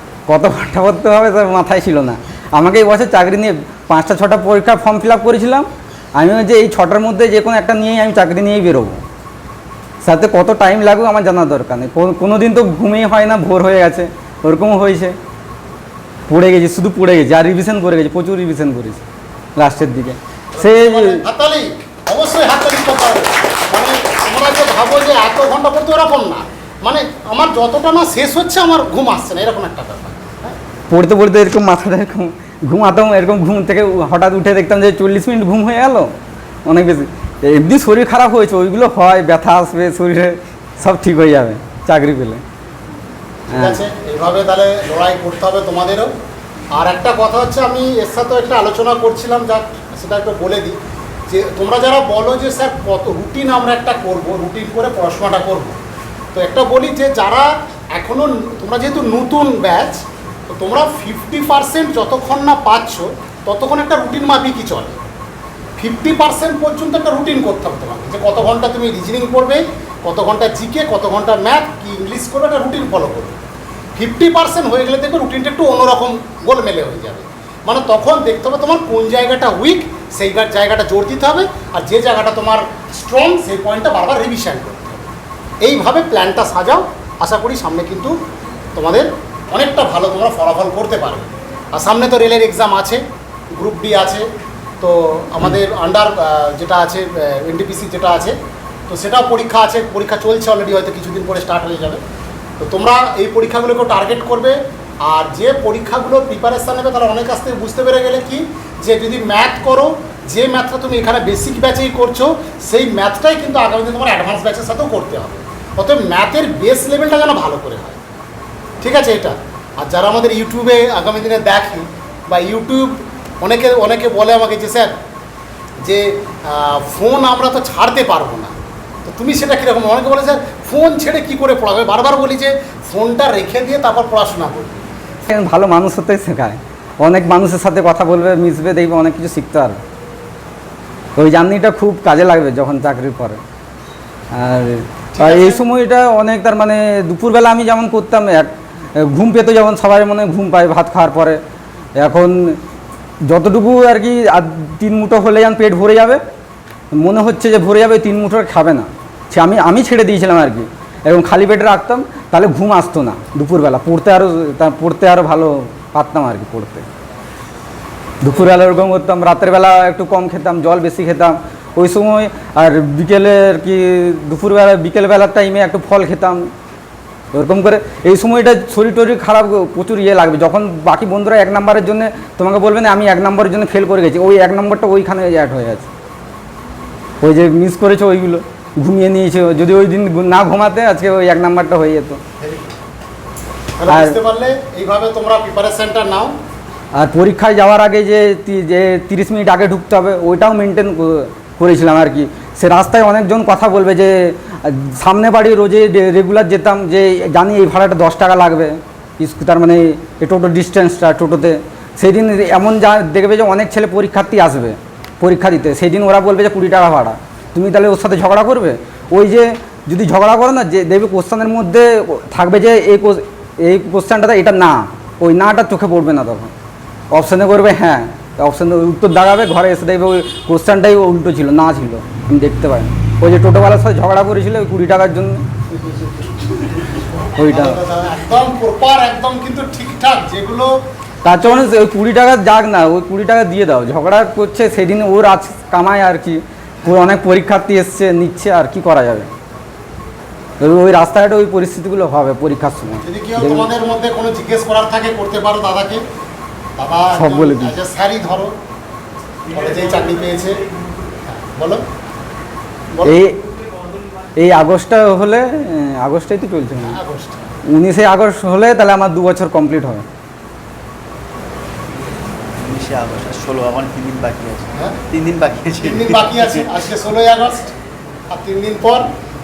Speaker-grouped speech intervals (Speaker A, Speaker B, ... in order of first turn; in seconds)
Speaker A: 0.3-9.0, 10.0-15.2, 16.3-19.0, 19.6-21.2, 30.9-36.1, 36.6-42.4, 43.5-43.8, 135.2-139.8, 141.2-143.4, 144.3-151.4, 152.0-152.6, 153.2-156.2, 156.9-166.9, 168.2-176.5, 177.3-185.9, 187.2-192.2, 193.9-194.2, 196.9-226.5, 227.1-235.4, 237.4-237.8, 241.2-249.3, 250.6-253.7, 257.1-257.8, 263.0-263.4, 264.4-267.0, 267.7-270.1
Speaker B: 20.5-30.6, 43.5-46.1, 46.7-50.8, 51.3-55.8, 56.3-65.0, 65.8-73.4, 74.0-85.1, 85.6-88.1, 88.8-93.0, 93.5-94.2, 94.8-98.3, 98.9-102.0, 102.6-118.0, 118.8-124.9, 125.8-128.5, 129.0-134.8, 145.1-145.6, 192.4-192.7, 193.8-196.3, 235.8-240.8, 253.0-256.0, 256.8-258.5, 259.5-260.6, 261.2-261.8, 262.9-263.2, 266.8-267.5, 275.8-277.7, 278.3-279.1
Speaker C: 272.6-276.8